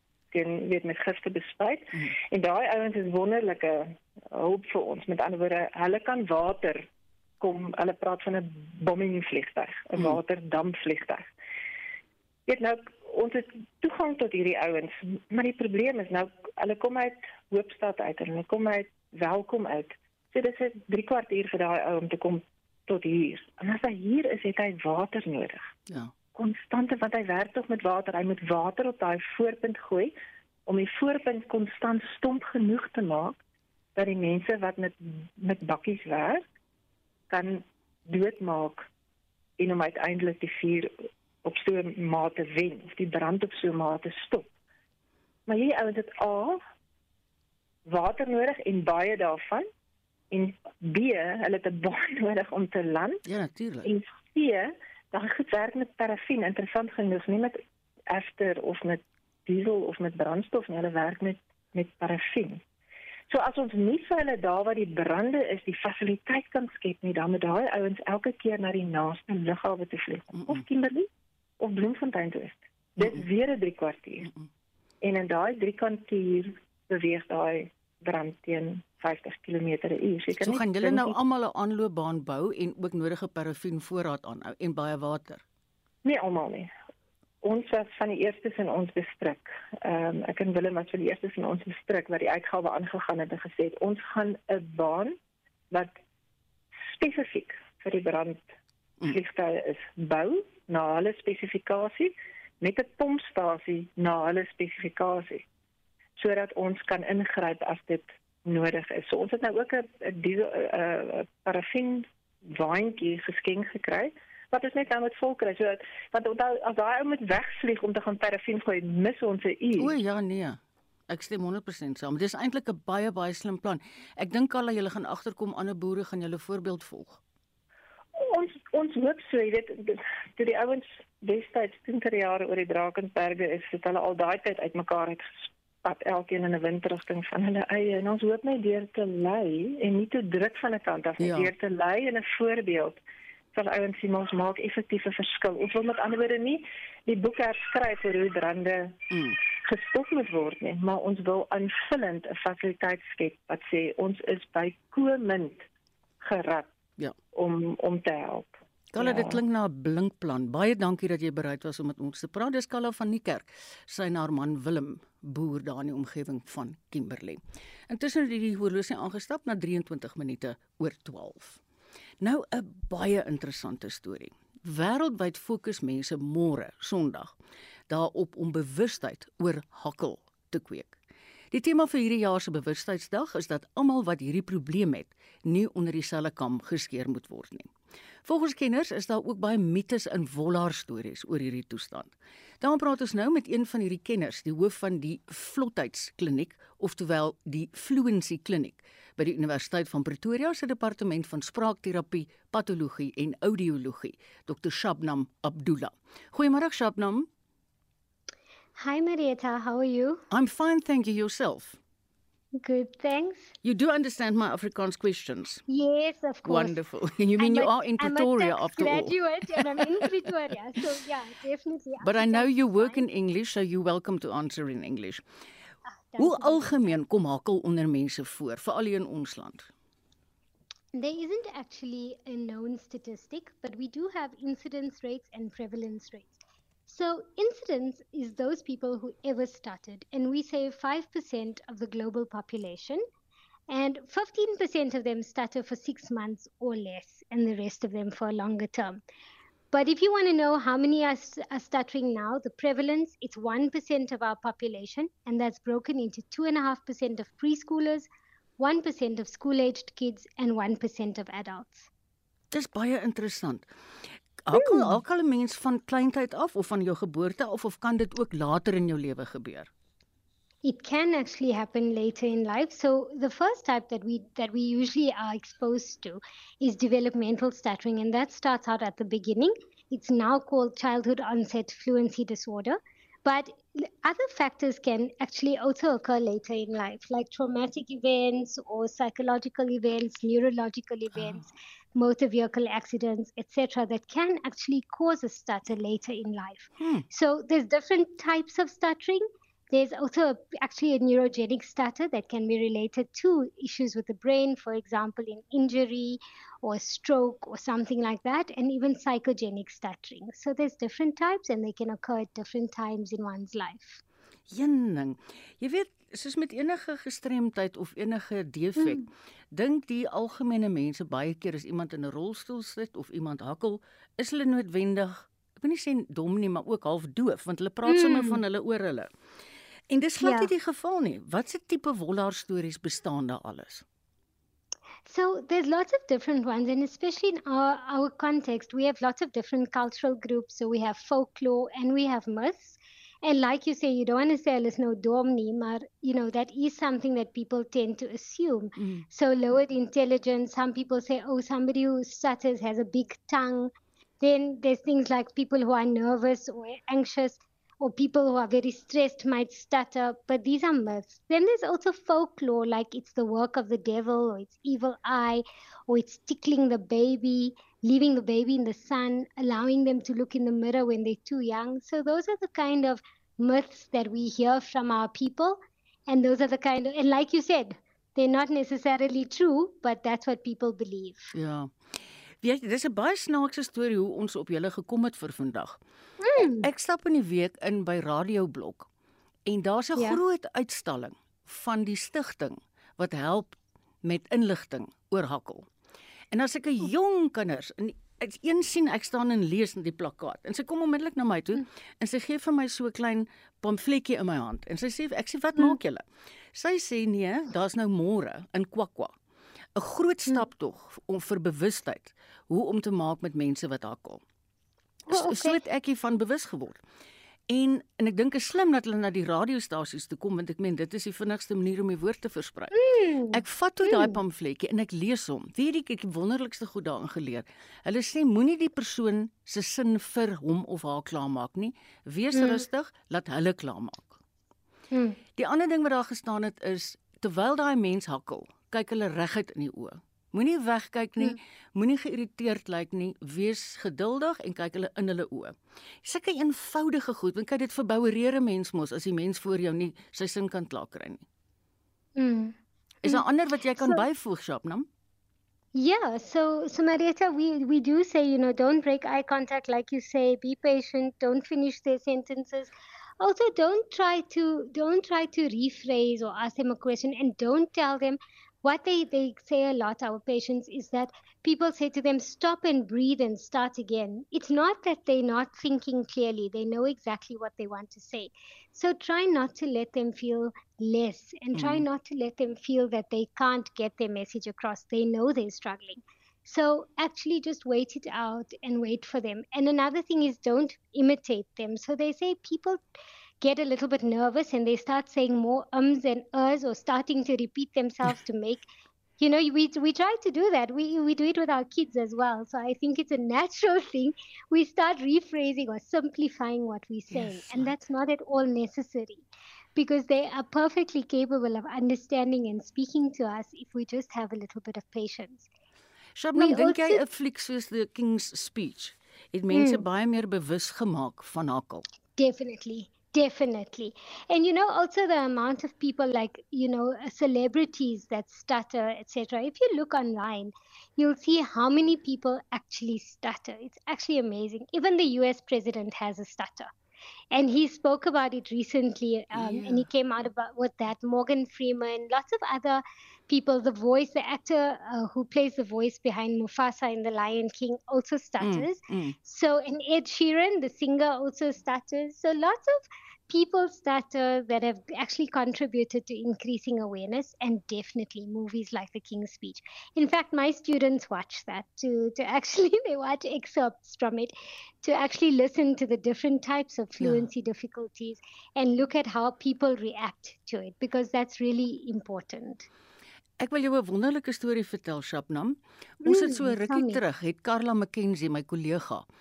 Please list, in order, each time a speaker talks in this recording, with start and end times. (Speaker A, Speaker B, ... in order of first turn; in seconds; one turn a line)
Speaker A: 0.3-6.8
Speaker A: 7.4-11.2
Speaker A: 12.5-25.6
Speaker B: 25.9-26.1
Speaker A: 26.3-30.1
Speaker A: 30.7-33.4
Speaker A: 34.0-36.4
Speaker A: 37.3-38.9
Speaker A: 39.6-40.9
Speaker A: 41.4-44.5
Speaker A: 45.5-46.6
Speaker A: 47.9-49.7
Speaker A: 50.3-53.2
Speaker B: 53.2-53.9
Speaker A: 53.8-62.6
Speaker A: 63.3-71.1
Speaker B: 70.3-70.6
Speaker A: 71.6-74.3
Speaker B: 73.0-73.2
Speaker B: 74.2-74.5
Speaker A: 75.0-81.2
Speaker B: 80.4-85.4
Speaker A: 86.0-86.7
Speaker A: 87.4-95.2
Speaker A: 96.9-98.4
Speaker A: 99.1-105.4
Speaker A: 106.2-119.9
Speaker B: 119.8-127.2
Speaker A: 128.2-143.0
Speaker B: 141.2-141.5
Speaker A: 143.5-149.0
Speaker B: 149.1-149.4
Speaker A: 149.6-155.6
Speaker A: 156.2-156.7
Speaker A: 157.3-159.4
Speaker B: 158.9-171.6
Speaker B: 172.2-177.3
Speaker B: 177.9-181.0
Speaker B: 181.5-187.7
Speaker B: 188.2-207.3
Speaker C: 208.8-210.2
Speaker B: 210.3-211.8
Speaker C: 212.6-213.5
Speaker B: 213.6-215.6
Speaker C: 215.7-216.8
Speaker B: 216.4-220.3
Speaker C: 217.4-223.0
Speaker B: 222.0-225.2
Speaker C: 226.1-226.9
Speaker B: 226.2-229.7
Speaker C: 230.9-243.0
Speaker C: 243.7-249.0
Speaker C: 249.7-258.1
Speaker C: 258.6-261.9
Speaker B: 262.5-263.7
Speaker B: 264.5-269.7
Speaker C: 264.5-265.0
Speaker C: 270.6-314.0
Speaker B: 291.1-291.4
Speaker B: 296.8-297.1
Speaker B: 314.5-329.1
Speaker C: 318.8-319.1
Speaker C: 327.9-328.4
Speaker B: 329.9-333.8
Speaker C: 330.2-330.5
Speaker C: 335.1-381.3
Speaker B: 348.8-349.0
Speaker B: 381.3-381.7
Speaker B: 382.4-385.8
Speaker C: 386.2-386.7
Speaker B: 386.6-388.9
Speaker B: 389.5-395.7
Speaker C: 389.9-390.2
Speaker B: 396.3-406.0
Speaker B: 406.5-409.1
Speaker B: 409.8-414.2
Speaker C: 415.1-415.6
Speaker B: 415.1-416.8
Speaker B: 417.5-422.7
Speaker C: 422.7-424.2
Speaker B: 423.3-434.2
Speaker C: 432.3-432.6
Speaker C: 434.9-435.2
Speaker B: 435.4-451.2
Speaker C: 452.1-453.2
Speaker B: 453.0-454.9
Speaker C: 453.8-454.0
Speaker C: 455.7-492.8
Speaker B: 481.5-481.9
Speaker C: 493.4-498.6
Speaker C: 499.2-515.5
Speaker B: 507.1-507.7
Speaker B: 516.1-521.8
Speaker C: 516.3-517.0
Speaker C: 519.5-519.8
Speaker C: 522.2-536.7
Speaker C: 537.3-572.7
Speaker B: 539.3-539.9
Speaker B: 548.4-549.1
Speaker B: 567.0-567.3
Speaker B: 573.4-579.0
Speaker C: 576.0-577.0